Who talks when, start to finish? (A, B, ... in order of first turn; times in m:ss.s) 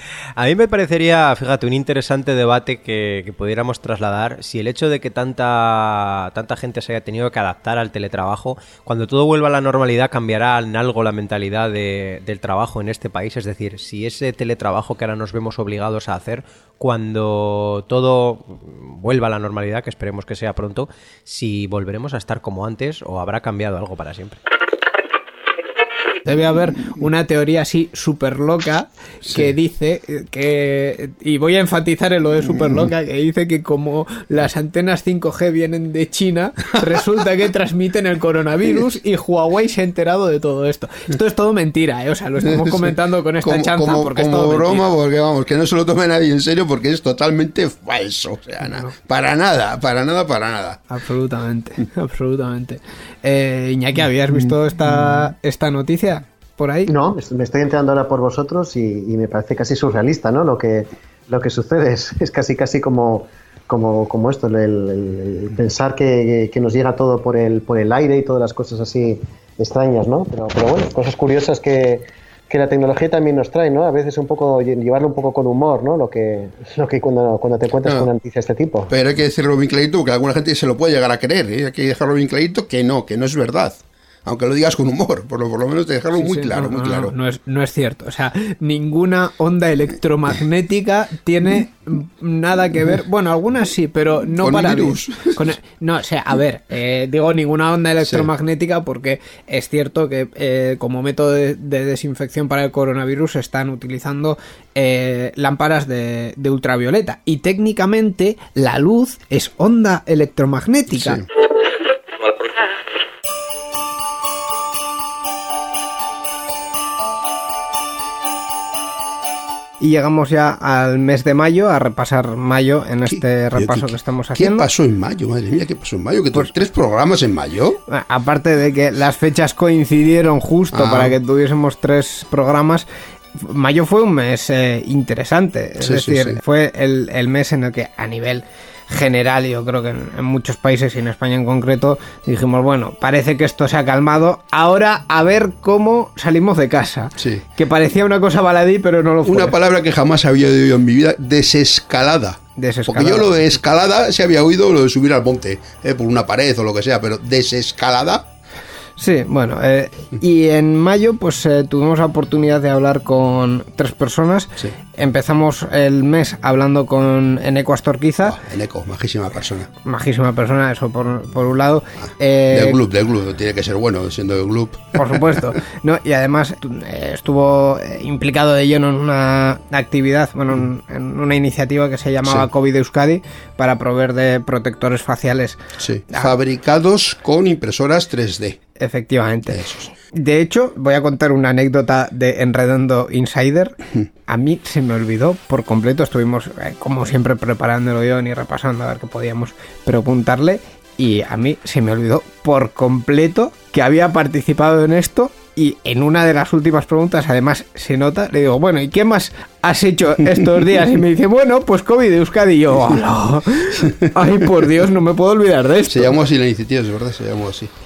0:00.4-0:24.4 A
0:26.2-0:44.8 B
0:29.2-0:29.5 C
0:42.4-0:50.8 C
0:48.6-0:48.9 B
0:50.9-0:56.9 B
0:56.9-1:18.9 D
1:17.8-1:18.1 C
1:18.9-1:27.1 C
1:26.1-1:51.2 B
1:34.4-1:35.4 C
1:50.9-1:51.2 C
1:59.8-2:04.7 B
2:03.0-2:07.8 C
2:07.9-2:29.6 B
2:10.7-2:11.1 C
2:15.8-2:16.4 C
2:27.2-2:27.4 C
2:29.2-2:38.3 C
2:32.6-2:33.4 B
2:39.0-2:48.4 B
2:48.2-2:49.7 C
2:49.8-2:52.8 B
2:52.0-2:55.4 C
2:55.0-3:05.6 B
3:05.8-3:08.6 C
3:08.8-3:36.2 B
3:09.5-3:09.9 C
3:35.9-3:37.7 C